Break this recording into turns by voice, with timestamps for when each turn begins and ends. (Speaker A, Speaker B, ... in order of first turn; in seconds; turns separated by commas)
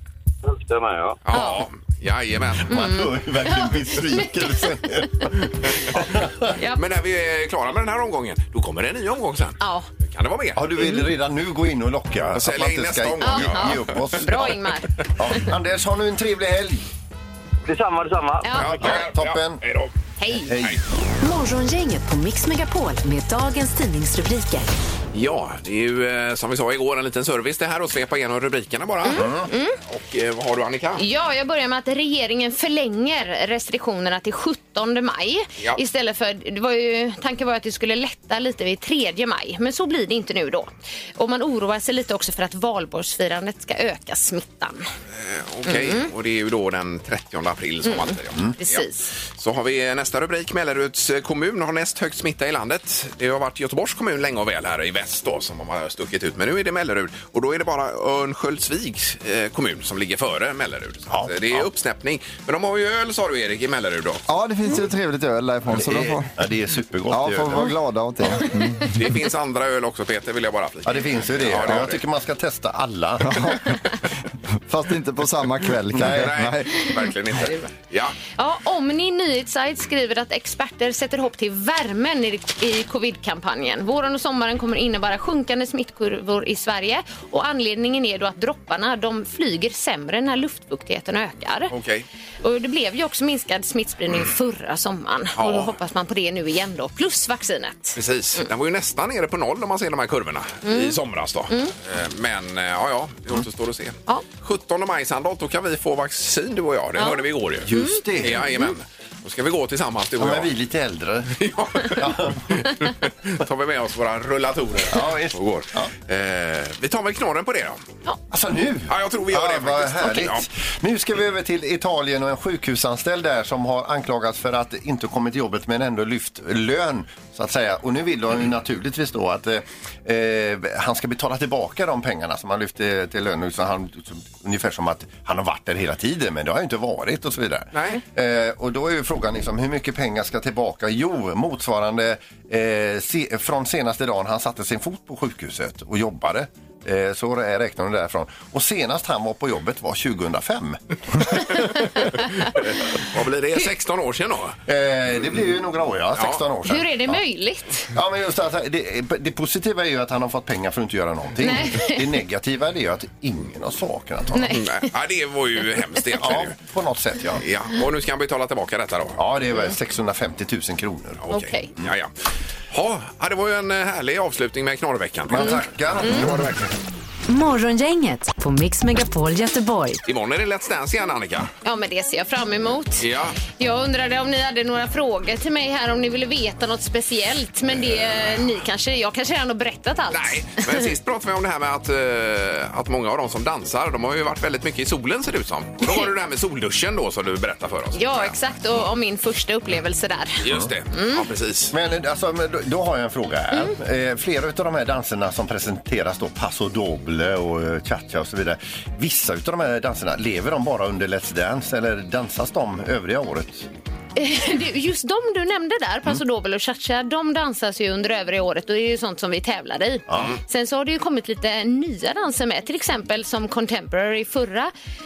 Speaker A: 0.4-1.2, Speaker B: 1.2-2.8, Speaker C: 1.3-1.6, Speaker D: 2.6-6.5, Speaker C: 2.7-4.3, Speaker B: 6.8-10.6, Speaker C: 9.6-9.9, Speaker D: 10.6-14.6, Speaker B: 12.3-14.1, Speaker C: 13.2-14.9, Speaker D: 15.2-16.8, Speaker A: 17.6-18.9, Speaker C: 18.4-18.8, Speaker B: 18.6-19.9, Speaker D: 18.8-19.6, Speaker C: 20.2-20.6, Speaker D: 20.5-20.8, Speaker E: 21.2-24.7, Speaker B: 25.1-31.0, Speaker C: 29.1-29.8, Speaker D: 29.1-29.5, Speaker C: 31.0-44.9, Speaker B: 45.1-64.2, Speaker C: 45.7-46.1, Speaker C: 47.9-49.1, Speaker D: 61.1-61.7, Speaker F: 64.3-66.3, Speaker D: 65.7-67.8, Speaker F: 67.1-68.9, Speaker B: 68.9-72.0, Speaker D: 70.8-73.6, Speaker F: 73.2-73.8, Speaker F: 74.7-76.7, Speaker D: 76.0-76.3, Speaker B: 76.0-78.2, Speaker C: 78.4-91.7, Speaker B: 91.7-92.1, Speaker C: 92.4-98.5, Speaker B: 95.4-95.7, Speaker B: 98.0-110.5, Speaker C: 100.7-101.0, Speaker C: 107.0-108.0, Speaker D: 107.6-108.5, Speaker D: 110.2-112.7, Speaker B: 111.4-117.8, Speaker D: 114.9-115.9, Speaker D: 118.3-150.8, Speaker B: 118.9-120.5, Speaker B: 137.7-138.0, Speaker B: 152.6-154.6, Speaker D: 154.7-157.2, Speaker C: 156.7-157.9, Speaker D: 157.9-164.6, Speaker C: 161.4-162.1, Speaker C: 164.3-164.9, Speaker B: 164.5-166.5, Speaker D: 166.2-167.4, Speaker B: 167.4-169.2, Speaker D: 169.2-171.2, Speaker B: 171.2-172.1, Speaker C: 171.3-171.7, Speaker B: 172.7-176.7, Speaker D: 175.3-176.6, Speaker C: 175.4-176.3, Speaker E: 177.3-180.0, Speaker B: 180.1-181.5, Speaker C: 181.6-190.9, Speaker B: 183.0-183.4, Speaker B: 190.1-198.4, Speaker C: 195.8-196.1, Speaker C: 197.9-200.4, Speaker B: 200.4-201.7, Speaker C: 200.9-201.2, Speaker D: 201.7-213.7, Speaker C: 214.2-224.7, Speaker D: 220.1-220.3